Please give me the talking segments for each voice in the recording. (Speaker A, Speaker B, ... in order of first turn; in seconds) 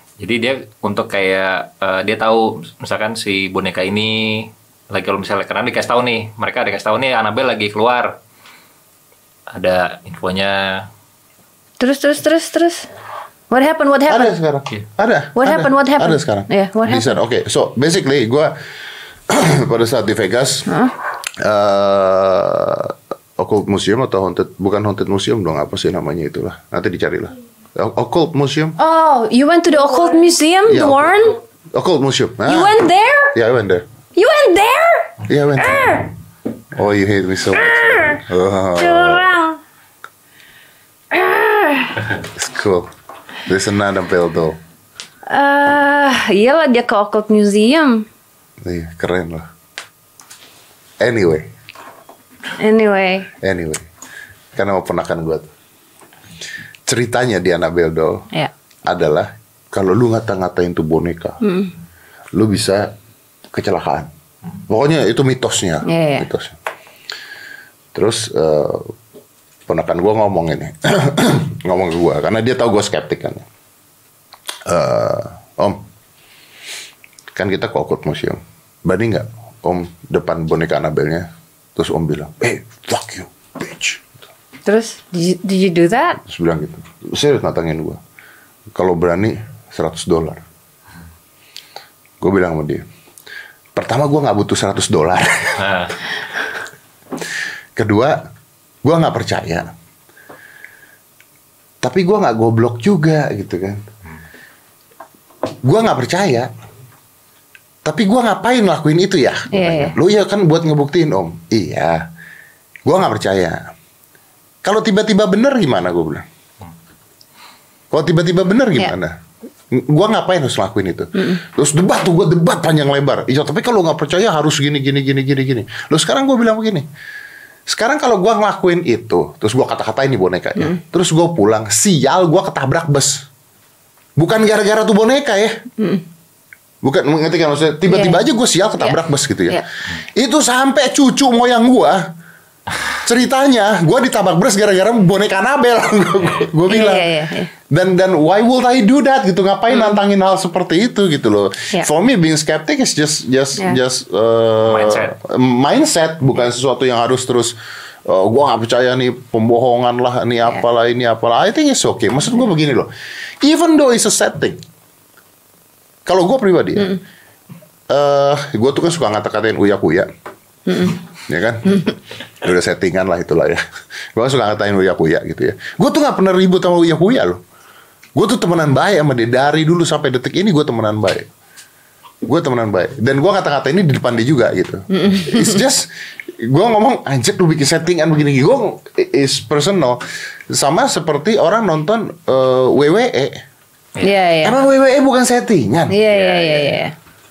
Speaker A: 0.2-8.2, 9.5-10.9, 95.6-95.9, 146.2-146.5, 154.6-155.1, 196.1-196.6
Speaker B: 11.8-12.9, 13.5-14.3, 15.3-17.2, 20.7-20.9, 28.8-31.4, 32.5-33.3, 34.1-36.1, 37.5-38.2, 38.8-39.6, 41.1-42.0, 45.3-48.0, 52.6-53.3, 61.4-61.7, 65.8-66.3, 84.6-86.2, 109.5-109.9, 135.8-136.0, 137.9-138.2, 146.7-147.5, 149.7-150.0, 170.7-170.9, 184.9-185.6, 194.0-194.6, 195.9-196.9
Speaker C: 14.1-18.5, 19.3-20.7, 21.4-28.8, 30.7-31.2, 31.7-32.7, 33.3-33.8, 35.3-36.0, 36.7-39.3, 42.2-42.9, 43.5-44.6, 48.6-49.5, 51.0-51.5, 53.4-53.9, 54.5-55.5, 56.9-58.2, 58.9-61.4, 62.3-62.9, 63.5-64.1, 64.7-66.5, 67.9-68.9, 69.7-73.4, 74.7-75.8, 77.3-84.1, 86.2-88.0, 88.7-90.4, 92.2-92.8, 93.8-95.6, 97.8-98.2, 98.8-99.7, 101.8-103.8, 105.6-106.5, 107.8-112.0, 112.8-113.7, 114.6-116.2, 117.9-119.2, 119.7-126.8, 127.7-133.2, 134.2-135.6, 136.8-139.6, 140.2-142.1, 143.0-147.1, 147.7-157.5, 158.1-162.9, 163.4-164.6, 166.1-167.0, 167.9-170.1, 171.3-171.9, 172.4-173.6, 174.1-177.4, 178.2-181.3, 182.2-193.4, 194.4-196.0